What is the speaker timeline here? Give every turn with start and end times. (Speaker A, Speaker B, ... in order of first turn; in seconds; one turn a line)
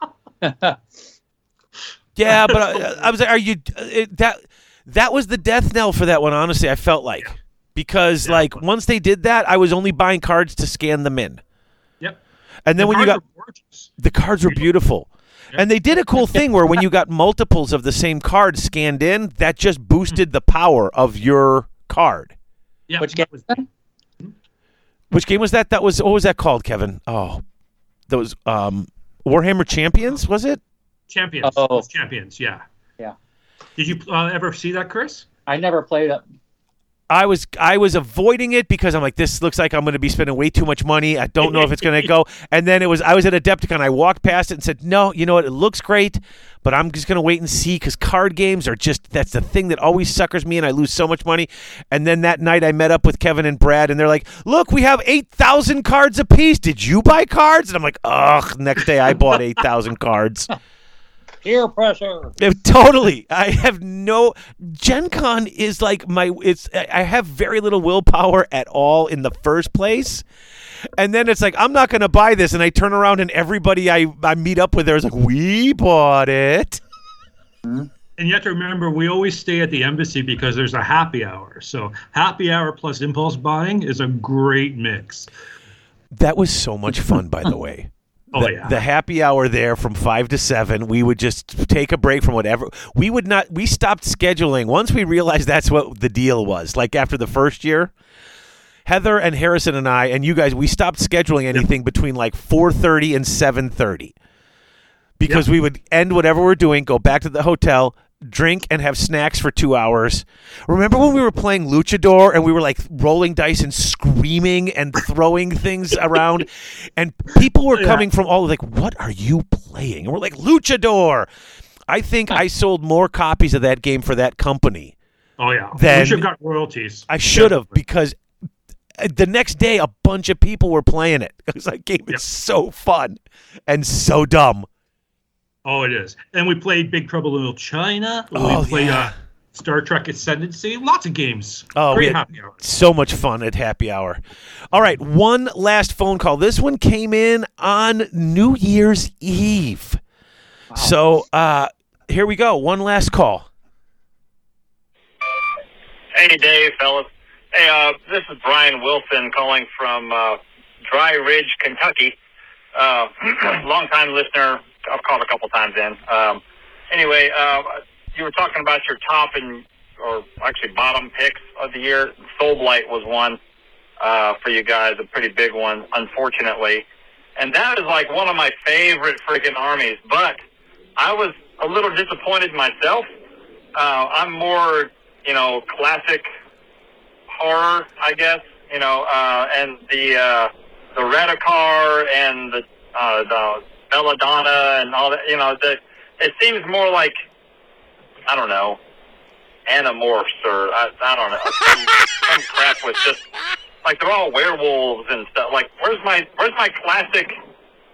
Speaker A: 0.4-0.8
Speaker B: 2.1-11.4
Speaker C: 2.5-2.8
Speaker C: 8.2-8.5
Speaker B: 12.7-13.2
Speaker C: 12.8-13.9
Speaker B: 14.0-22.3
Speaker C: 16.2-16.4
Speaker C: 22.9-23.6
Speaker A: 23.0-23.6
Speaker B: 25.1-27.4
Speaker B: 28.1-30.6
Speaker C: 31.1-32.6
Speaker A: 31.4-31.9
Speaker C: 33.8-35.3
Speaker A: 35.5-36.2
Speaker B: 37.1-60.5
Speaker A: 61.4-62.3
Speaker B: 62.4-70.2
Speaker B: 71.0-76.8
Speaker C: 78.2-85.3
Speaker B: 86.1-97.9
Speaker C: 88.3-88.8
Speaker B: 98.9-104.1
Speaker B: 105.2-121.3
Speaker B: 121.9-124.9
Speaker C: 125.4-127.7
Speaker B: 125.7-126.3
Speaker B: 127.1-128.2
Speaker B: 129.0-134.7
Speaker C: 135.6-142.6
Speaker B: 138.3-139.1
Speaker B: 141.7-144.2
Speaker B: 144.7-150.0
Speaker B: 150.7-153.5
Speaker D: 156.1-162.2
Speaker D: 162.7-173.4
Speaker D: 174.0-176.8
Speaker D: 177.4-180.4
Speaker D: 181.0-183.1
Speaker D: 183.7-186.3
Speaker D: 187.3-197.1
Speaker D: 198.3-198.8
Speaker D: 199.7-203.2
Speaker D: 203.8-207.4